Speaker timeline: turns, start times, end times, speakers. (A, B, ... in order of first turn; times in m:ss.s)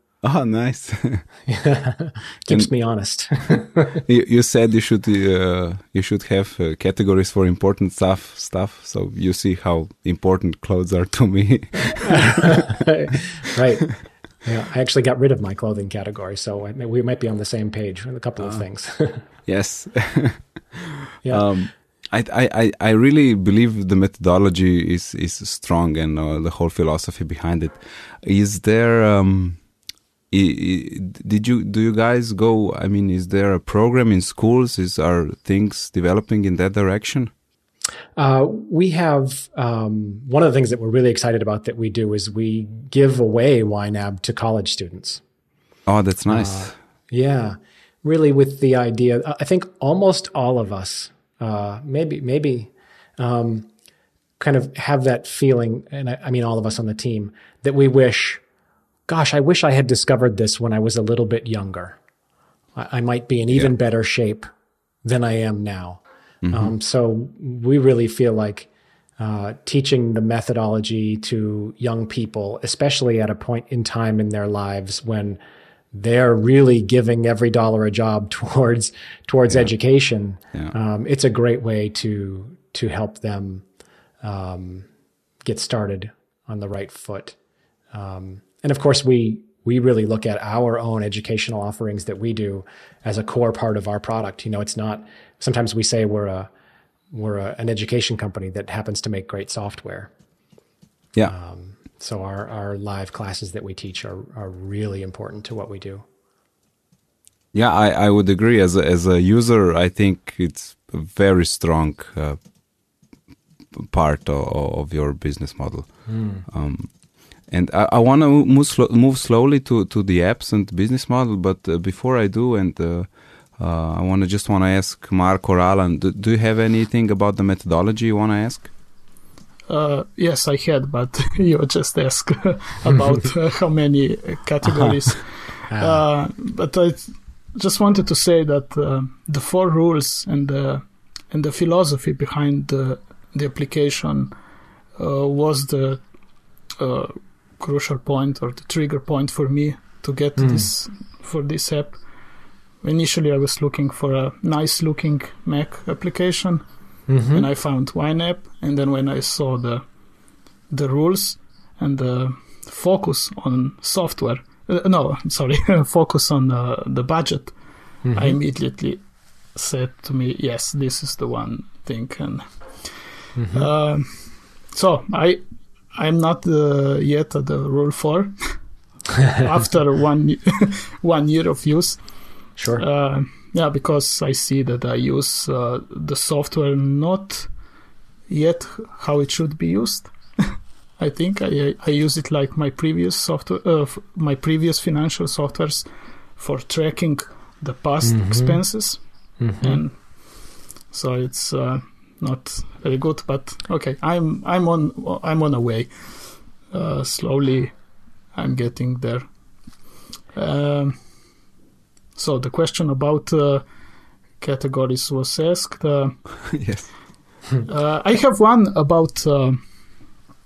0:00.2-0:01.2 A
0:01.5-0:04.0 B
0:04.0-0:12.7 A
0:12.0-0:19.2 B
0:19.4-0:29.6 A
0:30.3-0:37.3 A
0:38.2-0:45.2 B
0:45.9-0:46.7 A
0:46.3-0:53.7 B
0:54.4-0:58.4 B
0:59.1-1:02.0 B
1:02.7-1:04.5 B
1:05.0-1:08.7 B
1:06.4-1:06.7 A
1:09.2-1:15.4 B
1:15.9-1:23.6 B
1:24.2-1:24.9 B
1:25.4-1:27.4 B
1:27.9-1:36.5 B
1:37.1-1:40.1 B
1:41.2-1:46.0 B
1:47.5-1:52.4 A
1:53.8-1:55.9 A
1:56.1-1:56.4 B
1:56.4-1:56.9 A
1:57.5-2:08.7 A
2:09.7-2:24.3 C
2:15.7-2:16.0 B
2:25.0-2:26.0 C
2:26.8-2:32.0 C
2:30.4-2:30.7 B
2:32.8-2:36.6 C
2:37.1-2:37.5 B
2:37.3-2:39.8 C
2:40.7-2:47.5 C
2:48.0-2:48.4 B
2:48.1-2:49.0 C
2:49.5-2:55.4 C
2:53.3-2:53.7 B
2:55.9-2:58.4 C
2:59.3-3:07.5 C
3:02.6-3:02.8 B
3:08.3-3:19.0 C
3:18.0-3:18.8 B
3:19.4-3:19.8 B
3:19.6-3:27.7 C
3:28.3-3:29.3 C
3:30.3-3:31.1 C
3:32.2-3:33.6 C
3:34.4-3:36.5 C
3:36.5-3:36.9 A
3:37.6-3:39.6 C